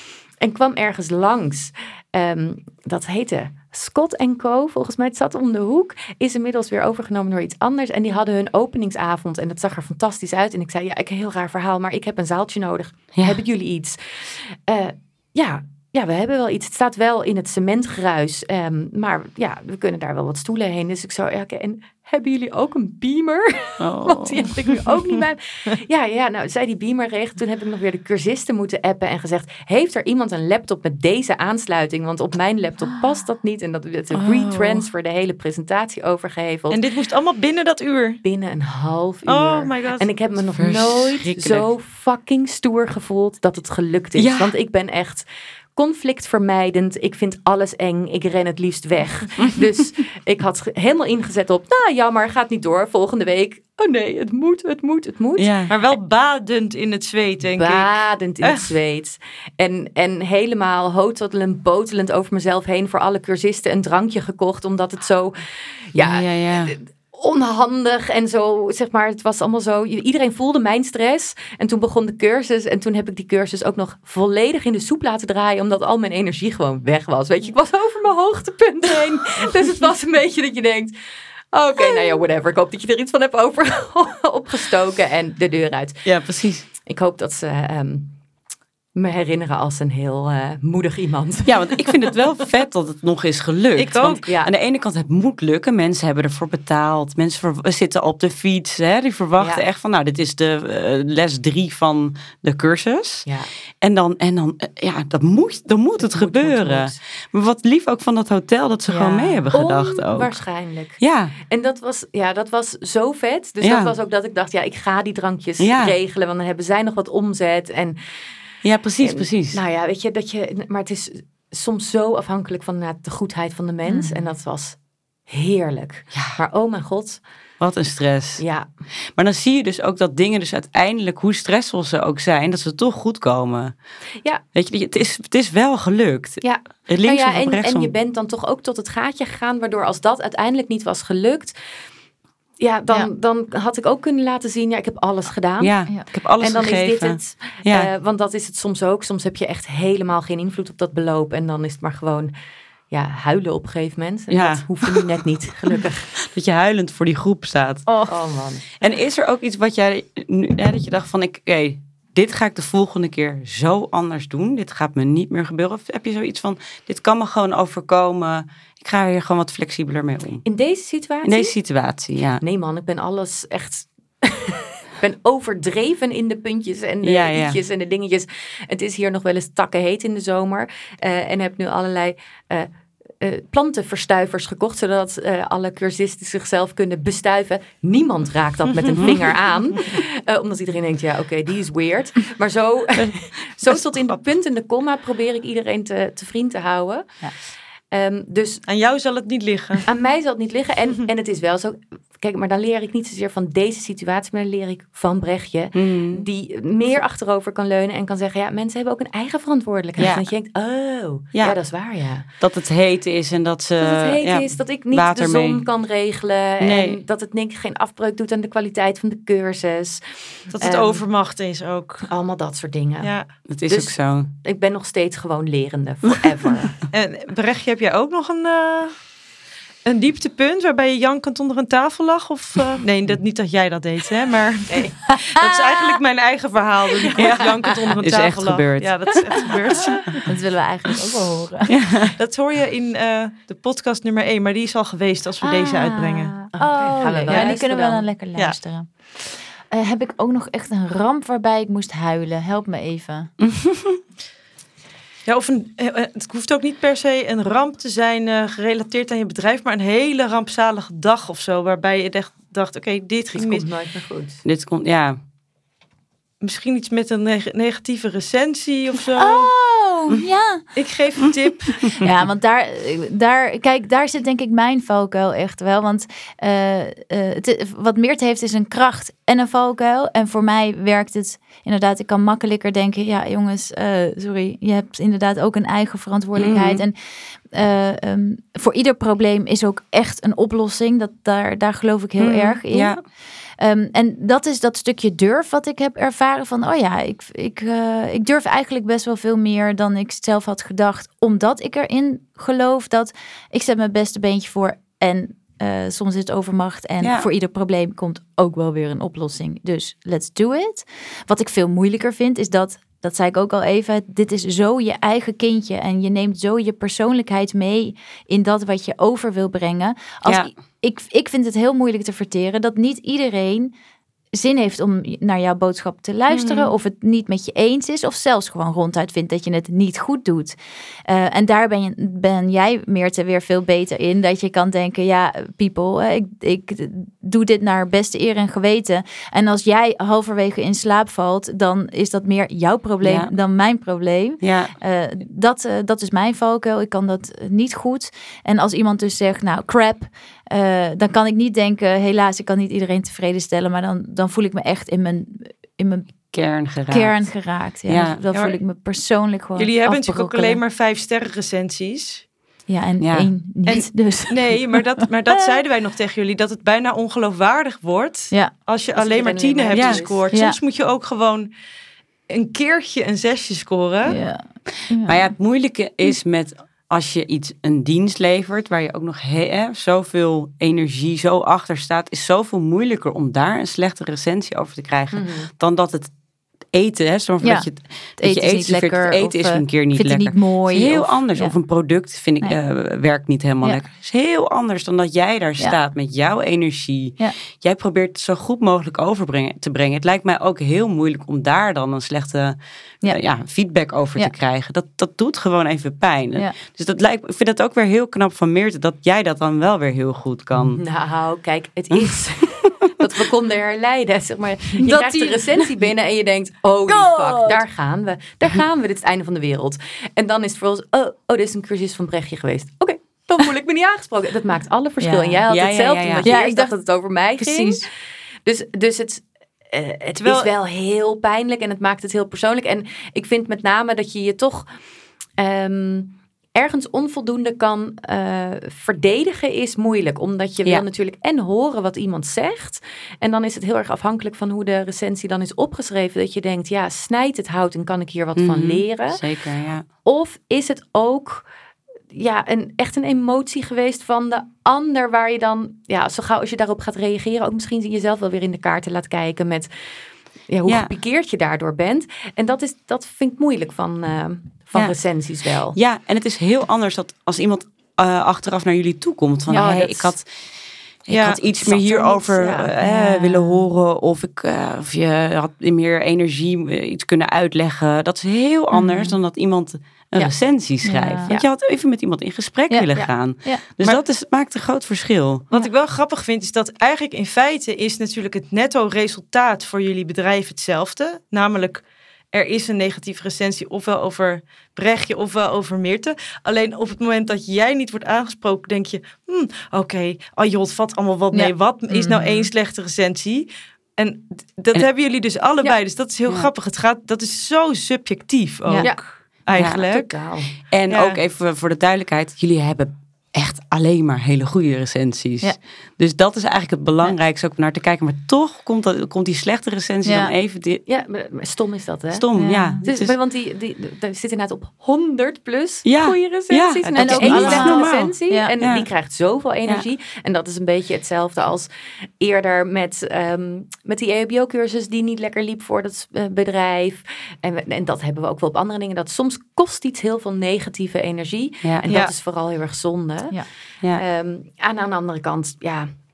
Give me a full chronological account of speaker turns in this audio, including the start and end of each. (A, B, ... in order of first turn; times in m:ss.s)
0:00.4-0:36.8 A
0:23.8-0:24.5 B
0:34.1-0:34.8 B
0:36.7-0:38.2 C
0:38.2-0:55.5 A
0:39.2-0:40.1 C
0:40.6-0:41.6 B
0:44.2-0:44.5 B
0:55.4-0:55.7 B
0:55.7-0:58.7 C
0:57.6-1:20.9 A
1:05.9-1:06.7 B
1:21.5-1:26.1 A
1:26.0-1:26.6 B
1:26.8-1:28.2 A
1:28.9-1:31.9 A
1:31.4-1:43.3 B
1:33.8-1:34.2 C
1:34.2-1:34.5 A
1:39.4-1:39.6 A
1:43.2-1:43.5 A
1:43.8-1:50.3 B
1:46.0-1:47.0 A
1:48.9-1:58.0 A
1:51.0-1:51.3 B
1:53.6-1:53.9 B
1:55.6-1:55.9 B
1:58.6-1:59.6 B
1:59.0-2:07.2 A
2:03.8-2:04.2 D
2:07.6-2:08.4 B
2:08.4-2:08.6 A
2:09.1-2:13.7 B
2:14.5-2:17.9 B
2:16.4-2:21.5 A
2:22.6-2:32.3 A
2:25.6-2:27.9 B
2:32.9-2:36.2 A
2:34.3-2:35.1 B
2:36.2-2:37.8 B
2:37.9-2:38.2 D
2:38.1-2:38.7 A
2:38.8-2:50.4 B
2:50.4-2:51.5 A
2:51.2-2:52.4 B
2:52.4-3:17.2 A
2:57.0-2:57.6 B
3:08.9-3:09.2 B
3:13.0-3:14.2 B
3:17.9-3:18.6 A
3:18.6-3:19.9 C
3:19.9-3:32.2 A
3:25.7-3:26.3 B
3:30.0-3:30.3 B
3:32.4-3:35.6 B
3:33.8-3:41.0 A
3:36.6-3:37.0 B
3:40.5-3:42.1 C
3:42.1-3:43.1 A
3:43.0-3:43.3 C
3:43.5-3:44.3 B
3:43.7-3:46.8 A
3:46.9-3:49.1 C
3:49.8-4:00.2 C
3:54.7-3:55.0 A
3:57.1-3:58.0 A
3:57.1-3:59.9 B
4:00.2-4:01.7 D
4:01.7-4:02.1 B
4:02.2-4:06.4 C
4:05.4-4:13.3 D
4:06.5-4:08.1 A
4:07.3-4:07.5 C
4:13.4-4:14.0 B
4:15.2-4:23.7 C
4:23.3-4:24.4 A
4:24.4-4:25.2 B
4:26.4-4:29.5 C
4:29.2-4:30.6 D
4:30.7-4:32.0 C
4:32.0-4:46.9 D
4:46.4-4:46.8 B
4:47.5-4:53.0 D
4:52.2-4:53.0 B
4:53.6-5:23.7 D
5:07.0-5:07.3 B
5:24.3-5:56.3 D
5:26.3-5:26.7 C
5:43.0-5:43.3 B
5:44.4-5:44.7 B
5:56.3-5:57.3 B
5:56.9-6:00.6 D
5:57.8-5:58.2 B
5:58.3-5:58.6 C
5:59.6-6:02.3 C
6:02.7-6:05.6 D
6:03.0-6:03.3 B
6:03.6-6:11.5 C
6:08.9-6:10.2 A
6:09.7-6:10.0 B
6:10.3-6:10.6 D
6:12.3-6:14.2 C
6:14.0-6:15.3 D
6:15.0-6:26.1 B
6:25.1-6:25.5 A
6:26.7-6:50.8 B
6:27.4-6:31.6 D
6:50.6-7:07.9 A
6:54.8-6:55.7 D
6:56.9-6:57.6 D
7:05.0-7:05.4 D
7:05.5-7:06.2 B
7:06.2-7:06.8 D
7:07.4-7:07.8 D
7:08.4-7:14.7 A
7:10.2-7:10.5 C
7:15.4-7:29.2 A
7:28.4-7:29.8 B
7:30.0-7:31.5 A
7:32.1-7:39.7 A
7:40.5-7:45.8 A
7:40.6-7:40.9 B
7:45.7-7:50.3 B
7:49.5-7:49.8 D
7:49.5-7:50.1 A
7:51.0-8:05.4 B
7:51.1-7:51.4 C
7:51.6-7:52.7 A
7:52.8-7:53.6 D
7:58.7-7:59.2 D
8:00.8-8:01.3 D
8:02.7-8:03.6 D
8:05.5-8:30.1 C
8:21.3-8:22.3 D
8:28.8-8:30.5 A
8:29.5-8:29.8 B
8:30.7-8:40.8 B
8:30.9-8:31.2 C
8:40.0-8:40.3 D
8:40.8-8:42.3 A
8:42.1-8:43.1 B
8:42.4-8:42.8 D
8:42.8-8:51.7 A
8:45.8-8:48.9 B
8:46.9-8:48.5 D
8:52.2-9:05.9 A
9:01.8-9:02.1 C